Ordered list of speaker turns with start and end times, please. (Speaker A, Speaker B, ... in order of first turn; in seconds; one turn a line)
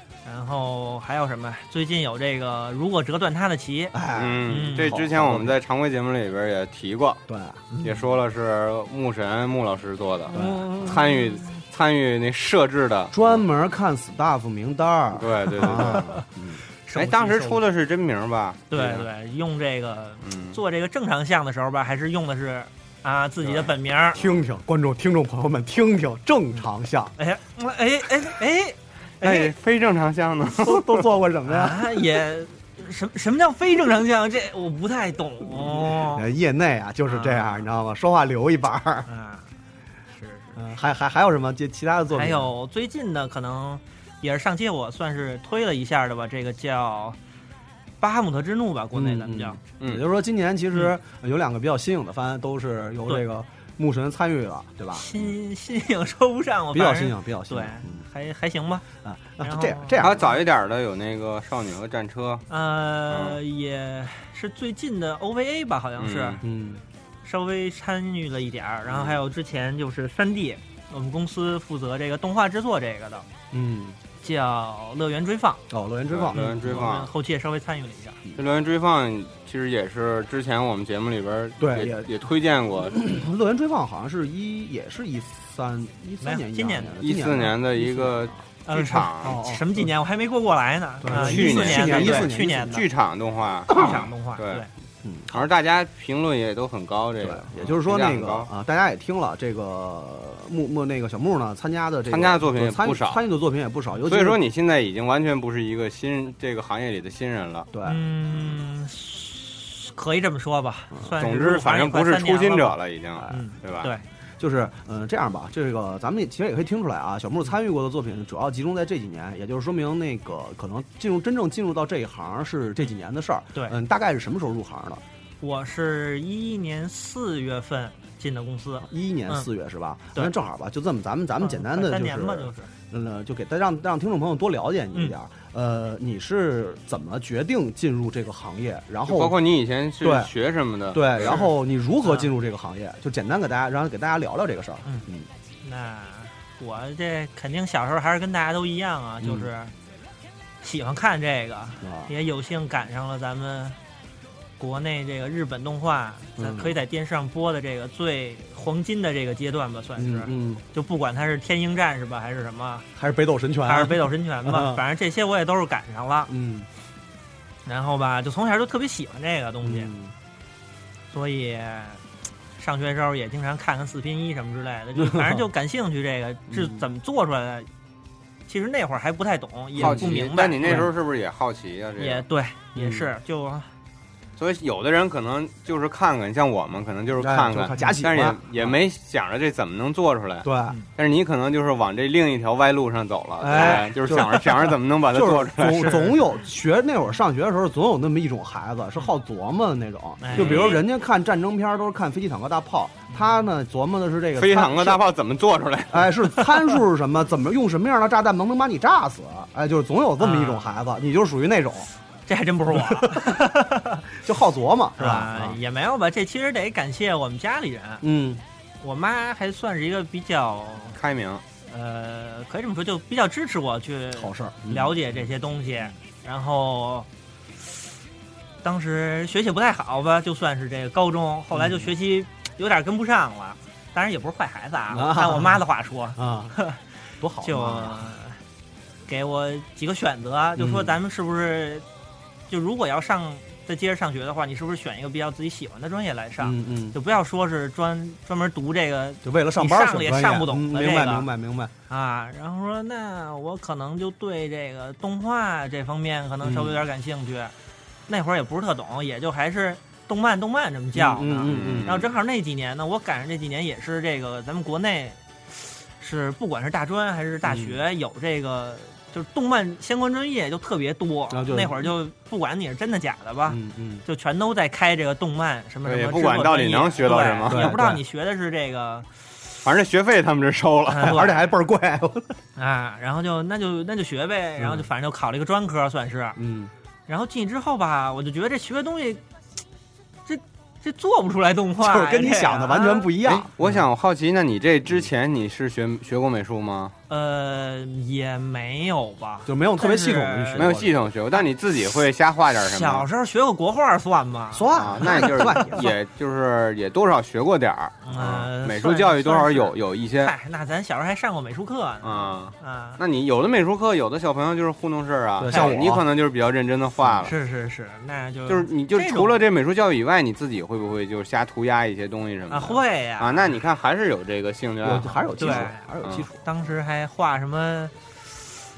Speaker A: 0.2-4.0
Speaker B: 3.9-5.6
Speaker C: 4.1-7.2
Speaker A: 4.5-5.0
Speaker B: 7.3-7.7
Speaker A: 7.7-8.1
Speaker C: 7.8-13.4
Speaker A: 10.3-11.5
Speaker B: 10.3-10.7
Speaker B: 13.1-16.6
Speaker C: 15.2-16.1
Speaker A: 15.8-16.2
Speaker A: 16.9-17.6
Speaker C: 16.9-19.1
Speaker A: 18.7-24.2
Speaker C: 20.2-20.6
Speaker C: 23.4-23.7
Speaker B: 24.1-27.1
Speaker A: 27.2-29.5
Speaker C: 29.2-31.0
Speaker B: 30.6-31.9
Speaker A: 31.5-36.3
Speaker B: 35.5-39.1
Speaker A: 37.1-37.7
Speaker A: 39.1-39.5
Speaker A: 40.1-40.6
Speaker B: 40.6-42.5
Speaker A: 42.1-47.2
Speaker A: 48.0-49.6
Speaker B: 48.9-55.1
Speaker C: 49.8-50.1
Speaker A: 54.9-58.9
Speaker B: 56.7-58.1
Speaker B: 59.0-60.4
Speaker A: 59.4-60.0
Speaker C: 60.0-62.5
Speaker A: 62.5-66.4
Speaker C: 63.1-63.4
Speaker C: 66.0-66.4
Speaker B: 66.4-66.8
Speaker A: 67.2-73.3
Speaker C: 68.9-69.2
Speaker B: 73.5-74.0
Speaker A: 74.2-75.7
Speaker B: 75.7-76.9
Speaker C: 76.1-77.1
Speaker A: 76.3-78.2
Speaker C: 78.4-83.1
Speaker B: 81.6-82.1
Speaker B: 82.9-88.4
Speaker A: 86.2-87.0
Speaker C: 87.0-89.4
Speaker A: 88.7-92.8
Speaker B: 88.9-89.9
Speaker B: 91.0-92.9
Speaker C: 91.1-94.7
Speaker A: 93.7-94.7
Speaker B: 93.7-94.0
Speaker B: 95.0-95.5
Speaker C: 95.3-98.5
Speaker B: 97.2-104.4
Speaker C: 102.1-103.2
Speaker C: 104.0-107.7
Speaker B: 107.7-108.1
Speaker A: 107.8-112.8
Speaker C: 111.2-113.9
Speaker A: 113.3-114.0
Speaker B: 114.4-125.0
Speaker A: 125.4-129.5
Speaker B: 128.8-139.4
Speaker A: 131.4-132.7
Speaker C: 139.1-141.4
Speaker B: 140.0-140.3
Speaker B: 140.9-145.3
Speaker A: 141.2-141.5
Speaker A: 145.6-149.7
Speaker B: 149.2-149.5
Speaker A: 150.6-153.8
Speaker B: 151.8-152.1
Speaker A: 154.6-162.9
Speaker B: 156.4-156.8
Speaker B: 160.0-160.6
Speaker B: 163.0-164.8
Speaker A: 163.7-166.3
Speaker B: 166.3-166.7
Speaker A: 167.7-169.9
Speaker B: 169.6-170.1
Speaker A: 171.1-172.0
Speaker A: 172.6-177.7
Speaker B: 175.0-175.5
Speaker B: 176.5-176.8
Speaker A: 178.5-180.9
Speaker B: 179.8-180.9
Speaker C: 179.8-182.3
Speaker A: 182.0-183.7
Speaker C: 184.4-196.1
Speaker B: 187.2-188.8
Speaker B: 190.4-190.8
Speaker B: 193.4-194.5
Speaker A: 193.6-194.4
Speaker B: 195.1-205.0
Speaker A: 195.7-196.1
Speaker A: 200.2-200.8
Speaker C: 200.3-200.8
Speaker A: 203.1-203.4
Speaker C: 204.4-206.2
Speaker B: 205.9-211.9
Speaker A: 210.2-210.8
Speaker A: 212.3-214.1
Speaker B: 212.7-213.4
Speaker B: 214.2-215.6
Speaker A: 215.0-218.0
Speaker B: 218.0-218.4
Speaker A: 218.8-221.0
Speaker C: 221.0-221.4
Speaker A: 221.7-227.1
Speaker B: 224.2-225.2
Speaker A: 228.6-236.8
Speaker B: 231.5-231.9
Speaker B: 234.9-235.6
Speaker B: 236.2-236.6
Speaker B: 237.2-238.2
Speaker A: 237.4-238.4
Speaker A: 239.1-241.8
Speaker B: 240.6-241.0
Speaker A: 242.5-251.3
Speaker B: 246.4-247.0
Speaker B: 249.2-251.7
Speaker A: 251.9-257.5
Speaker B: 256.4-256.8
Speaker A: 258.1-279.1
Speaker B: 260.9-262.0
Speaker C: 261.5-262.1
Speaker B: 267.4-267.8
Speaker B: 271.3-271.9
Speaker B: 273.5-274.0
Speaker C: 275.9-277.8
Speaker B: 277.5-278.0
Speaker C: 279.6-281.1
Speaker A: 280.9-281.4
Speaker B: 281.0-282.3
Speaker A: 282.6-286.4
Speaker B: 286.4-286.7
Speaker A: 287.1-289.2
Speaker A: 290.3-293.1
Speaker B: 291.8-293.7
Speaker C: 293.2-296.9
Speaker A: 297.1-300.8
Speaker B: 299.5-300.9
Speaker C: 300.6-303.1
Speaker A: 302.6-305.4
Speaker B: 304.5-305.9
Speaker C: 304.7-310.3
Speaker A: 308.0-313.0
Speaker C: 312.0-317.3
Speaker B: 315.4-316.0
Speaker A: 315.5-315.8
Speaker A: 317.2-319.4
Speaker C: 318.5-326.3
Speaker A: 322.5-323.6
Speaker B: 324.8-326.4
Speaker A: 325.4-327.9